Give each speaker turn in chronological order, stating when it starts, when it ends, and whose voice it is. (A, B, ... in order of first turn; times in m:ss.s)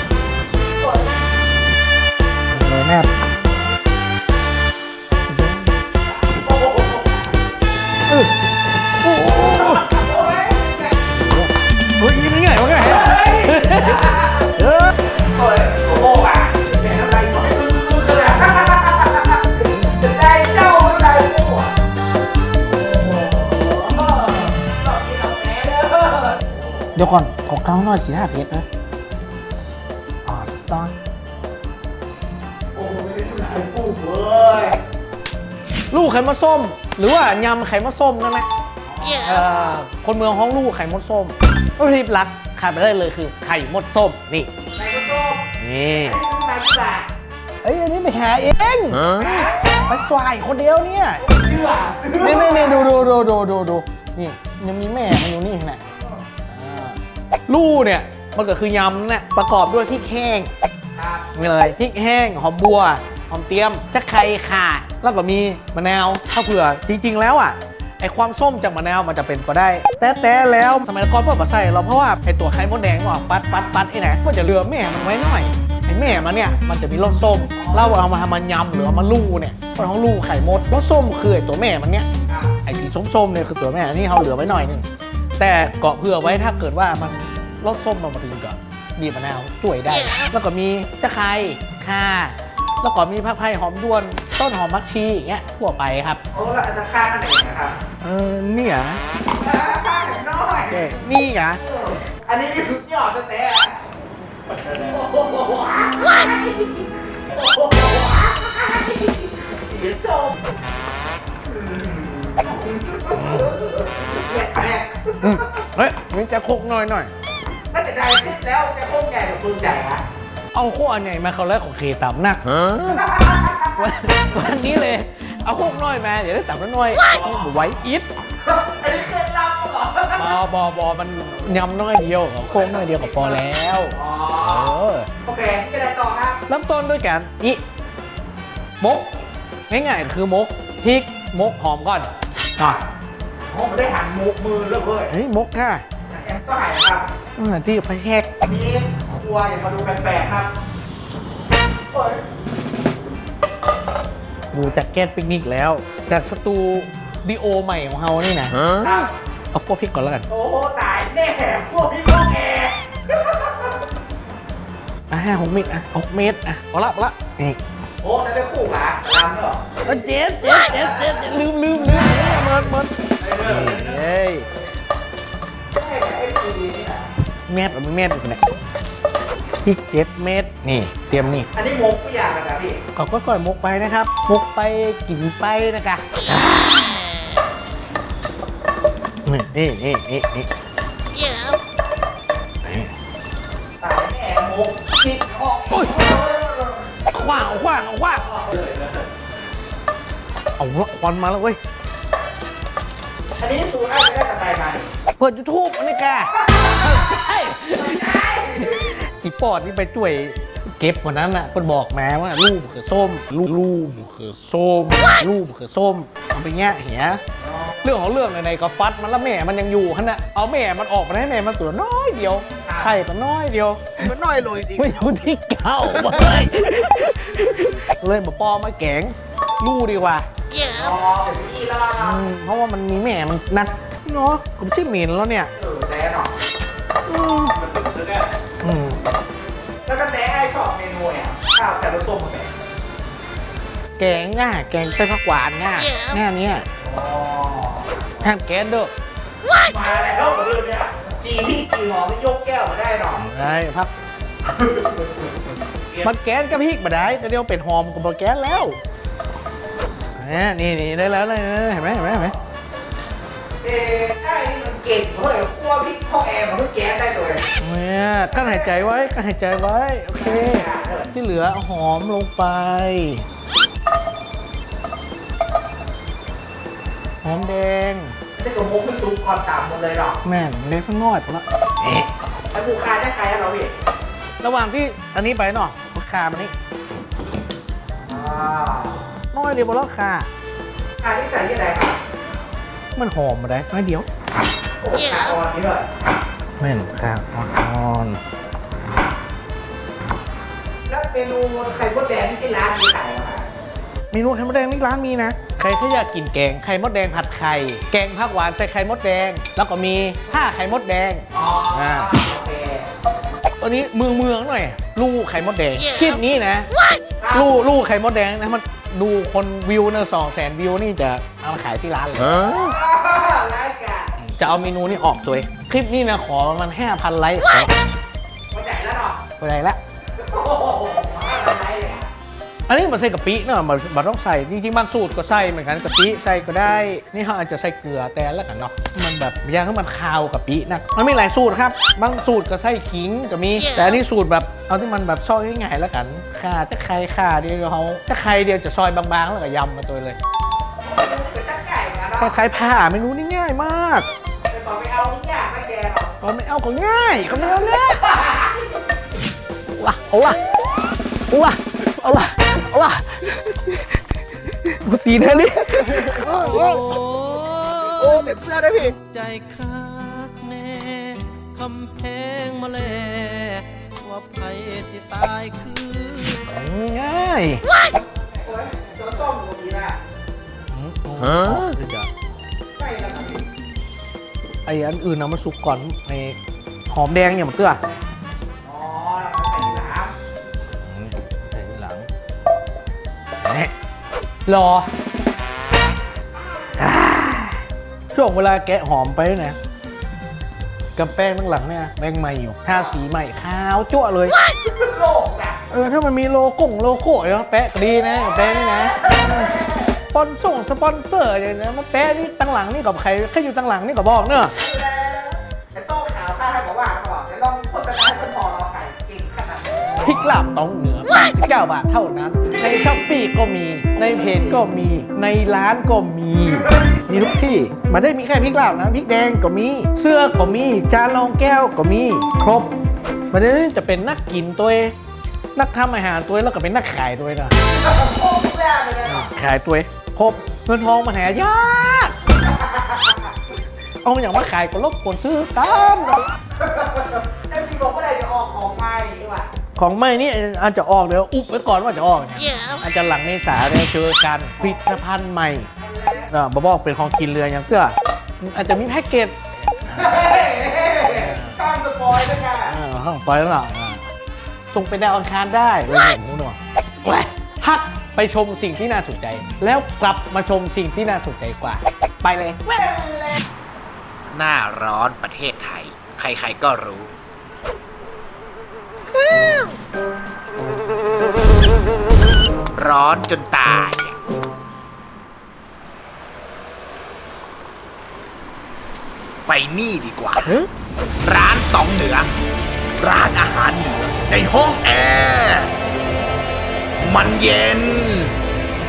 0:00.8-0:01.1 A
0:02.5-0:03.1 B
0:05.3-0:05.7 B
0:06.2-0:07.2 A
0:08.1-0:08.4 B
0:09.0-0:10.0 B
0:09.4-0:10.9 A
0:11.2-0:11.5 B
0:12.0-0:15.0 B
0:12.8-0:14.5 A
0:15.3-0:21.7 A
0:22.8-0:26.6 A
0:27.0-0:28.6 B
0:30.2-0:30.9 B
0:32.8-0:34.8 A
0:35.9-0:38.5 B
0:38.8-0:39.8 A
0:39.2-0:44.5 B
0:44.8-0:47.1 A
0:45.6-0:46.2 B
0:47.6-0:51.2 B
0:49.2-0:49.9 A
0:51.2-0:52.9 A
0:52.2-0:55.8 B
0:56.5-1:00.5 B
1:01.0-1:01.3 A
1:01.3-1:22.1 B
1:17.6-1:18.0 A
1:22.3-1:22.6 A
1:22.6-1:24.9 B
1:25.4-1:36.2 B
1:36.3-1:37.8 A
1:38.0-1:39.0 B
1:39.3-1:41.0 A
1:40.7-1:41.6 B
1:41.6-1:43.9 A
1:44.5-1:50.4 A
1:51.4-1:55.5 A
1:53.1-1:53.5 B
1:55.2-1:57.1 B
1:57.7-2:00.0 A
2:00.5-2:02.6 B
2:02.7-2:03.9 A
2:03.8-2:08.1 B
2:08.4-2:10.4 A
2:10.2-2:15.1 B
2:12.4-2:14.7 A
2:15.2-2:16.4 A
2:16.5-2:17.6 B
2:18.8-2:19.1 B
2:19.7-2:22.8 B
2:22.6-2:22.9 A
2:23.5-2:25.1 A
2:25.1-2:25.8 B
2:26.1-2:27.1 A
2:27.4-2:28.3 B
2:28.4-2:30.5 A
2:31.9-2:32.2 A
2:34.5-2:38.8 B
2:38.8-2:39.1 A
2:39.5-2:40.3 B
2:40.3-2:43.7 A
2:45.1-2:47.6 B
2:48.0-2:52.5 A
2:49.8-2:54.5 B
2:53.2-2:54.0 A
2:55.7-2:57.1 A
2:57.5-2:58.5 B
2:59.6-3:01.5 B
3:01.5-3:02.8 A
3:03.0-3:07.0 B
3:09.3-3:10.5 B
3:12.6-3:12.9 B
3:13.8-3:16.9 A
3:15.7-3:16.0 B
3:17.1-3:18.2 B
3:18.1-3:19.0 A
3:20.6-3:21.6 B
3:23.4-3:24.9 A
3:25.2-3:37.2 B
3:26.4-3:28.9 A
3:37.4-3:37.9 A
3:37.8-3:44.1 B
3:42.6-3:43.0 A
3:44.0-3:45.1 A
3:44.8-3:50.3 B
3:45.9-3:46.5 A
3:50.6-3:52.2 A
3:52.0-3:55.5 B
3:55.6-3:56.3 A
3:57.1-3:57.6 B
3:57.6-3:58.3 A
3:58.6-3:59.0 B
3:59.8-4:02.5 A
4:04.0-4:06.7 B
4:06.8-4:07.9 A
4:08.2-4:08.9 B
4:09.6-4:13.2 A
4:13.2-4:13.9 B
4:14.6-4:15.0 A
4:16.0-4:18.8 B
4:20.2-4:22.4 B
4:23.6-4:27.5 A
4:27.6-4:33.2 B
4:28.2-4:29.0 A
4:30.2-4:31.1 A
4:37.2-4:38.2 B
4:38.4-4:40.2 A
4:40.2-4:42.1 B
4:42.5-4:43.7 A
4:44.4-4:46.5 B
4:48.1-4:49.0 A
4:49.3-4:50.3 B
4:51.0-4:52.0 A
4:53.0-4:54.1 B
4:54.8-4:55.9 A
4:56.6-4:58.2 B
5:00.9-5:03.5 A
5:04.1-5:12.1 B
5:11.3-5:12.9 A
5:13.6-5:16.7 B
5:17.2-5:17.5 A
5:17.3-5:22.5 B
5:22.4-5:24.1 A
5:24.2-5:27.7 B
5:28.5-5:29.2 A
5:29.4-5:29.8 B
5:30.1-5:32.1 A
5:32.7-5:50.2 B
5:50.8-5:52.4 A
5:52.2-5:54.1 B
5:54.5-5:56.2 A
5:56.2-5:58.1 B
5:57.6-5:58.6 A
5:59.8-6:00.4 B
6:01.3-6:06.5 B
6:06.1-6:06.5 A
6:06.3-6:16.4 C
6:08.0-6:08.9 A
6:16.4-6:17.6 B
6:18.1-6:20.0 A
6:20.7-6:22.1 B
6:22.8-6:23.4 A
6:24.7-6:26.4 B
6:26.9-6:27.8 B
6:28.6-6:30.1 A
6:30.8-6:32.1 B
6:33.4-6:33.7 B
6:34.5-6:34.9 B
6:36.8-6:39.6 B
6:41.0-6:44.4 B
6:44.6-6:45.7 A
6:45.7-6:49.6 B
6:48.2-6:50.0 A
6:50.1-6:54.5 B
6:54.6-7:00.2 A
7:00.0-7:12.7 B
7:02.6-7:02.9 A
7:04.1-7:04.6 A
7:06.5-7:07.3 A
7:13.3-7:15.0 B
7:15.6-7:17.6 B
7:17.7-7:19.3 A
7:19.1-7:22.2 B
7:22.5-7:23.2 A
7:24.0-7:26.3 B
7:26.6-7:29.5 A
7:29.8-7:35.7 B
7:35.8-7:36.3 A
7:36.3-7:39.4 B
7:39.9-7:42.8 A
7:41.1-7:41.6 B
7:42.7-7:44.0 B
7:44.7-7:52.7 B
7:52.7-7:53.4 A
7:54.3-7:57.1 D
8:02.8-8:04.2 D
8:09.5-8:10.7 D
8:11.2-8:12.3 D
8:13.0-8:15.7 D
8:17.0-8:18.4 D